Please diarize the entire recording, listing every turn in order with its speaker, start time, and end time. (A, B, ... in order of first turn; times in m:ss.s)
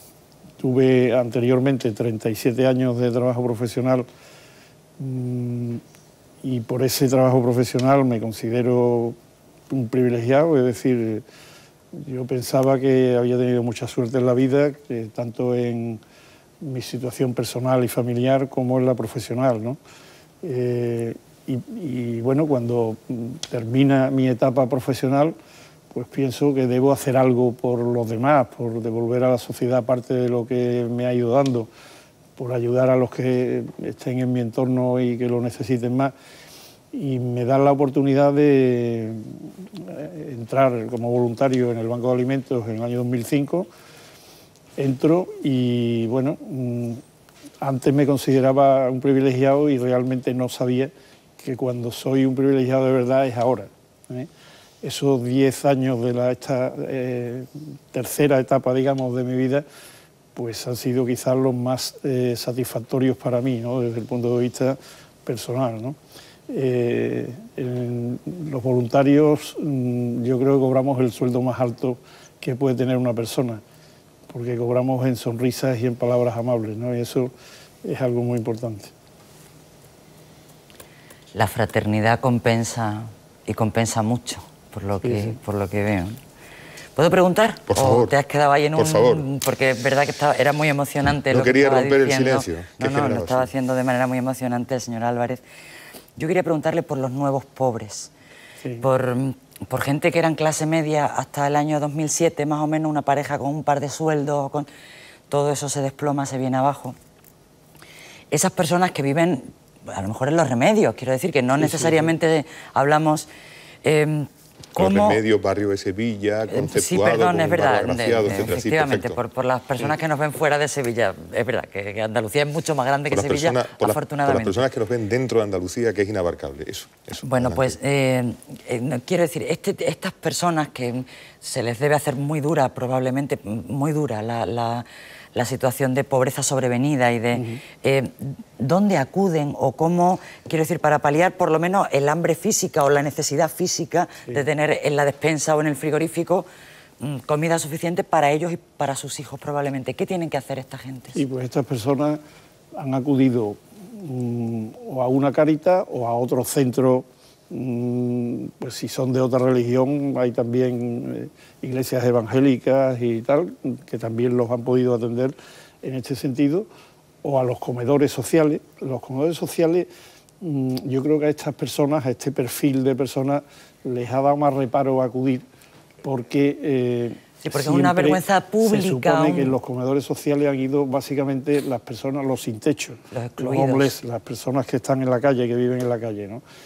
0:00.6-0:04.1 A
0:05.0-0:05.8 A
0:06.4-0:09.2 A
0:09.7-0:11.2 A
0:11.9-0:16.0 A
0:16.6-0:19.8 A
0:20.4-0:25.4 A
0:25.9-0:31.7 A
0:32.4-0:36.1 A
0:36.9-0:43.7 A
0:44.8-0:47.0 A
0:47.6-0:54.3 A
0:54.8-0:59.6 A
1:00.3-1:06.0 A
1:06.5-1:13.6 A
1:14.3-1:17.3 A
1:17.8-1:18.9 A
1:21.3-1:26.2 B
1:25.0-1:25.4 A
1:27.0-1:35.4 B
1:27.7-1:28.1 C
1:28.7-1:29.2 C
1:31.3-1:33.5 C
1:36.2-1:38.1 B
1:38.8-1:44.7 B
1:45.3-1:47.0 B
1:48.3-1:53.3 B
1:51.5-1:52.1 A
1:53.8-1:55.2 B
1:54.8-1:59.2 C
1:56.5-2:04.6 B
2:03.1-2:07.8 C
2:07.2-2:26.5 B
2:17.3-2:17.6 A
2:27.0-2:31.2 B
2:31.1-2:32.2 A
2:32.8-2:46.7 A
2:47.2-2:49.9 A
2:50.4-2:55.4 A
2:56.0-3:06.4 A
2:57.4-2:59.6 B
3:03.1-3:03.9 B